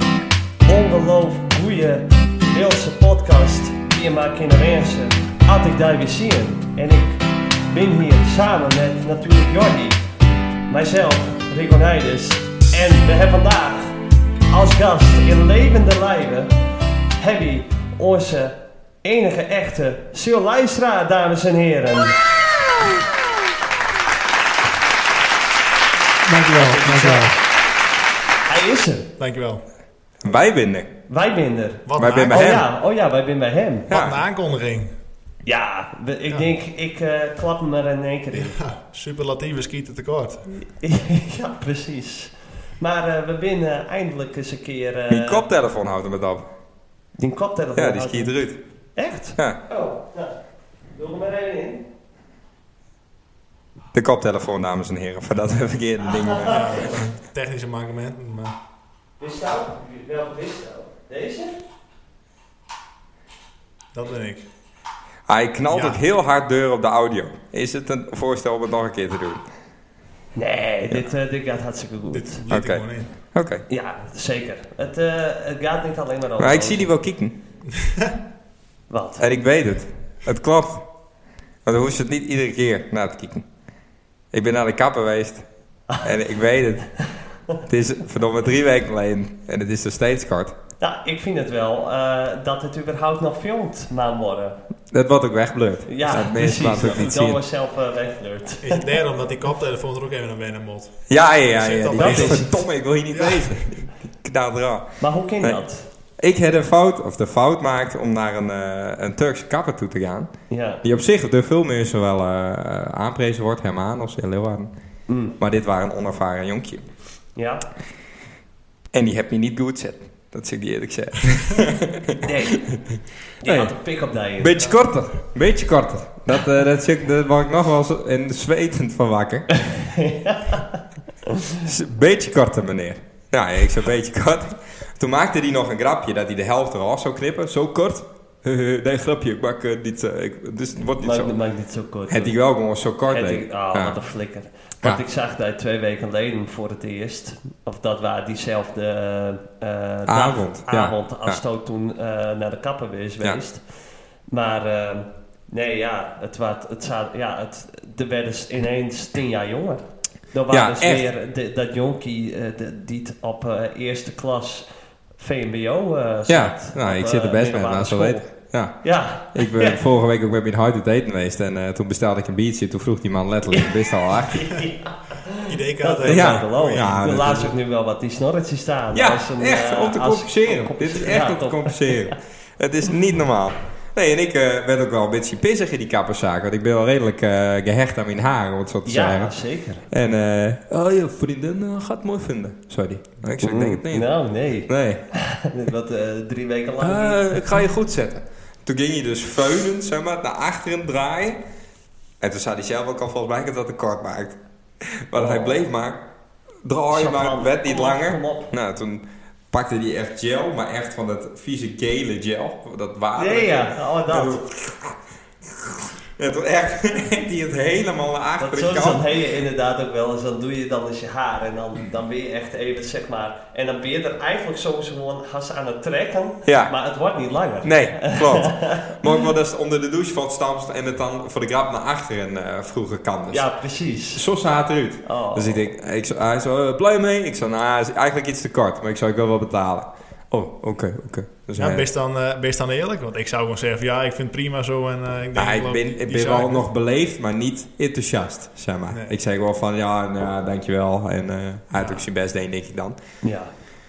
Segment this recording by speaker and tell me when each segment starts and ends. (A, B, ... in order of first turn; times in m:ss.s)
0:00.7-0:10.0 A
0:10.7-0:14.0 A
0:14.5-0:16.6 A
0:17.2-0:22.2 A
0:26.2-0:27.4 B
0:26.5-0:27.4 A
0:28.5-0:29.1 A
0:29.2-0:29.6 B
0:30.2-0:30.9 C
0:31.1-0:33.9 A
0:31.9-0:32.6 B
0:32.0-0:32.7 C
0:33.9-0:34.2 C
0:33.9-0:34.9 B
0:35.4-0:38.6 A
0:38.3-0:40.5 B
0:40.5-0:45.5 A
0:45.1-0:46.5 C
0:47.2-0:48.4 A
0:47.8-0:48.6 C
0:49.0-0:50.4 A
0:50.9-0:51.9 A
0:53.9-0:56.9 C
0:56.1-0:56.9 A
0:56.4-0:58.6 B
0:59.2-1:01.6 A
1:03.9-1:04.5 B
1:05.3-1:09.4 C
1:05.7-1:06.0 B
1:10.4-1:12.4 A
1:12.1-1:13.1 B
1:12.5-1:13.6 C
1:13.7-1:16.9 A
1:16.4-1:17.4 C
1:17.8-1:18.1 B
1:18.9-1:19.3 A
1:19.2-1:20.9 C
1:21.6-1:23.5 C
1:24.3-1:25.4 C
1:26.0-1:26.9 C
1:27.0-1:27.6 A
1:27.7-1:30.5 C
1:30.8-1:34.6 A
1:34.9-1:37.4 C
1:35.9-1:38.9 A
1:38.6-1:43.7 B
1:41.1-1:45.6 C
1:42.0-1:42.5 A
1:45.0-1:45.9 A
1:46.2-1:50.3 C
1:50.5-1:50.8 A
1:50.8-1:54.7 C
1:55.1-1:55.4 A
1:55.4-1:56.8 C
1:57.4-1:57.6 A
1:58.9-2:03.7 C
2:02.2-2:02.7 A
2:03.4-2:04.7 A
2:04.4-2:09.5 C
2:09.5-2:11.6 A
2:11.6-2:21.3 C
2:21.0-2:22.4 A
2:22.1-2:24.0 C
2:23.1-2:33.6 A
2:30.1-2:31.4 C
2:34.3-2:49.8 A
2:40.5-2:41.0 C
2:46.3-2:54.6 C
2:54.3-3:02.2 A
2:55.5-2:57.5 B
2:56.1-2:57.5 C
2:58.9-3:09.3 C
3:08.8-3:09.9 A
3:09.9-3:14.1 C
3:13.4-3:17.5 A
3:14.7-3:15.0 C
3:16.8-3:21.4 C
3:22.2-3:26.0 C
3:25.1-3:25.7 A
3:26.6-3:39.1 C
3:26.9-3:28.5 A
3:33.2-3:34.4 A
3:38.4-3:49.2 A
3:46.4-3:46.7 C
3:47.6-3:53.5 C
3:53.3-3:54.2 A
3:54.1-4:01.9 C
3:55.0-3:55.7 A
4:01.6-4:06.7 B
4:05.4-4:13.0 C
4:11.7-4:12.0 B
4:13.2-4:13.5 A